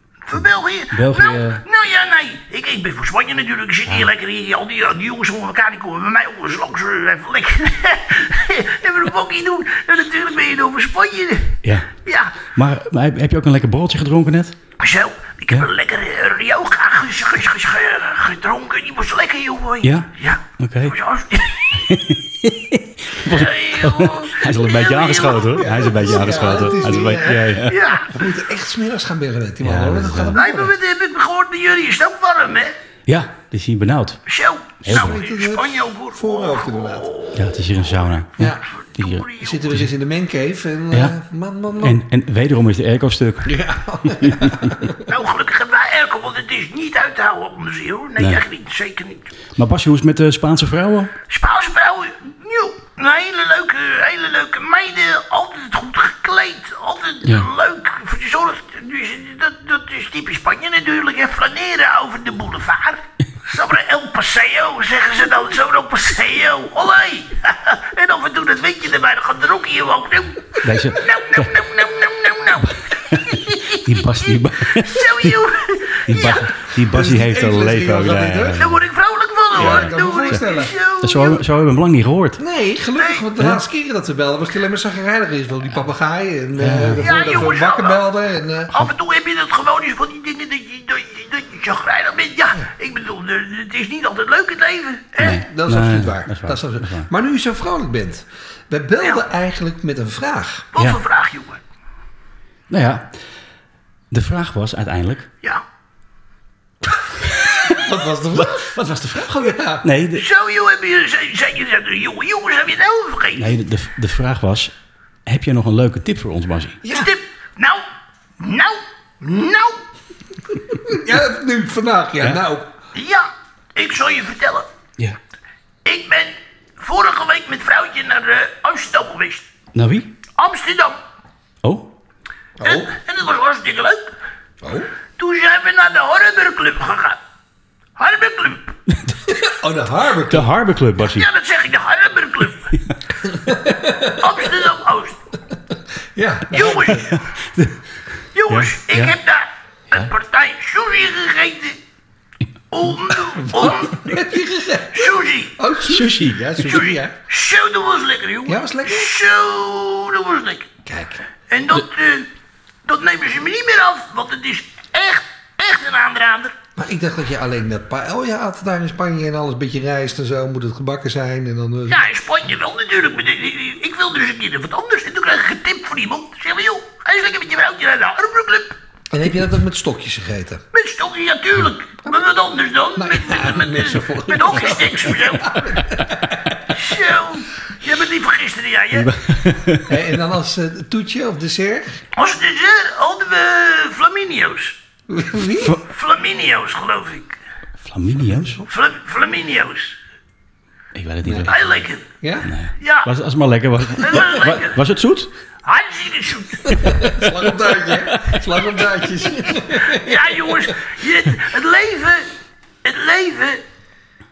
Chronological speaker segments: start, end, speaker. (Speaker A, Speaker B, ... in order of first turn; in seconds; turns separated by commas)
Speaker A: 0.3-12.5, Speaker B: 0.9-1.6, Speaker B: 11.6-11.9, Speaker B: 12.5-14.6, Speaker A: 14.8-21.7, Speaker B: 19.8-21.0, Speaker B: 21.7-28.1, Speaker A: 23.2-27.0, Speaker C: 25.6-30.7, Speaker A: 27.7-28.1, Speaker B: 29.6-30.4, Speaker A: 30.4-32.7, Speaker B: 33.1-34.2, Speaker A: 34.3-37.9, Speaker B: 34.8-35.2, Speaker C: 34.9-37.1, Speaker B: 37.3-39.9, Speaker C: 38.4-38.7, Speaker A: 38.4-39.8, Speaker C: 39.4-42.0, Speaker B: 41.8-44.8, Speaker C: 43.5-45.0, Speaker A: 45.1-49.3, Speaker B: 48.2-48.4, Speaker B: 49.6-51.1, Speaker A: 51.3-76.6, Speaker B: 70.6-71.6, Speaker B: 72.6-75.4, Speaker B: 76.0-78.8, Speaker C: 76.8-78.6, Speaker A: 78.6-81.4, Speaker C: 79.5-80.8, Speaker B: 79.5-80.4, Speaker B: 81.0-82.4, Speaker C: 82.4-88.9, Speaker A: 83.0-83.3, Speaker B: 86.6-87.1, Speaker A: 87.0-88.0, Speaker A: 88.7-95.4, Speaker C: 95.2-100.7, Speaker B: 95.2-97.1, Speaker A: 100.7-101.6, Speaker B: 102.7-103.1, Speaker B: 104.1-105.3, Speaker C: 107.3-109.9, Speaker B: 108.4-110.3, Speaker A: 110.2-113.5, Speaker B: 113.4-114.7, Speaker B: 115.3-116.8, Speaker C: 116.8-117.1, Speaker A: 116.9-117.8, Speaker A: 118.4-119.8, Speaker C: 120.7-122.7, Speaker A: 122.9-124.7, Speaker A: 125.8-129.5, Speaker B: 129.7-130.1, Speaker A: 130.4-131.0, Speaker C: 132.6-132.9, Speaker A: 132.6-134.1, Speaker C: 134.6-134.9, Speaker A: 135.2-137.2, Speaker A: 138.0-138.7, Speaker C: 139.3-140.5, Speaker B: 140.3-141.3, Speaker A: 141.0-142.7, Speaker C: 143.2-144.4, Speaker A: 144.2-145.2, Speaker C: 146.2-147.2, Speaker A: 146.5-147.2, Speaker B: 147.1-147.8, Speaker A: 148.3-151.8, Speaker B: 148.5-149.2, Speaker A: 152.7-154.2, Speaker C: 153.4-157.2, Speaker A: 154.9-155.5, Speaker B: 155.9-156.8, Speaker A: 156.7-160.7, Speaker C: 158.5-159.1, Speaker C: 160.8-161.3, Speaker A: 161.5-162.3, Speaker A: 162.8-166.5, Speaker C: 166.8-172.0, Speaker A: 171.9-178.8, Speaker C: 179.1-180.6, Speaker A: 180.7-185.8, Speaker C: 183.0-186.7, Speaker A: 186.7-189.1, Speaker B: 188.9-189.9, Speaker C: 189.9-192.1, Speaker A: 192.2-194.8, Speaker C: 195.1-195.8, Speaker A: 195.8-197.4, Speaker B: 197.8-198.6, Speaker C: 198.3-198.6, Speaker A: 198.7-200.0, Speaker B: 200.9-201.8, Speaker C: 201.2-201.5, Speaker A: 201.5-202.0, Speaker C: 202.2-202.5, Speaker B: 202.4-205.3, Speaker A: 202.8-203.1, Speaker A: 204.0-204.8, Speaker A: 205.7-206.9, Speaker C: 206.7-210.7, Speaker B: 207.9-208.4, Speaker A: 209.7-212.3, Speaker A: 212.8-213.6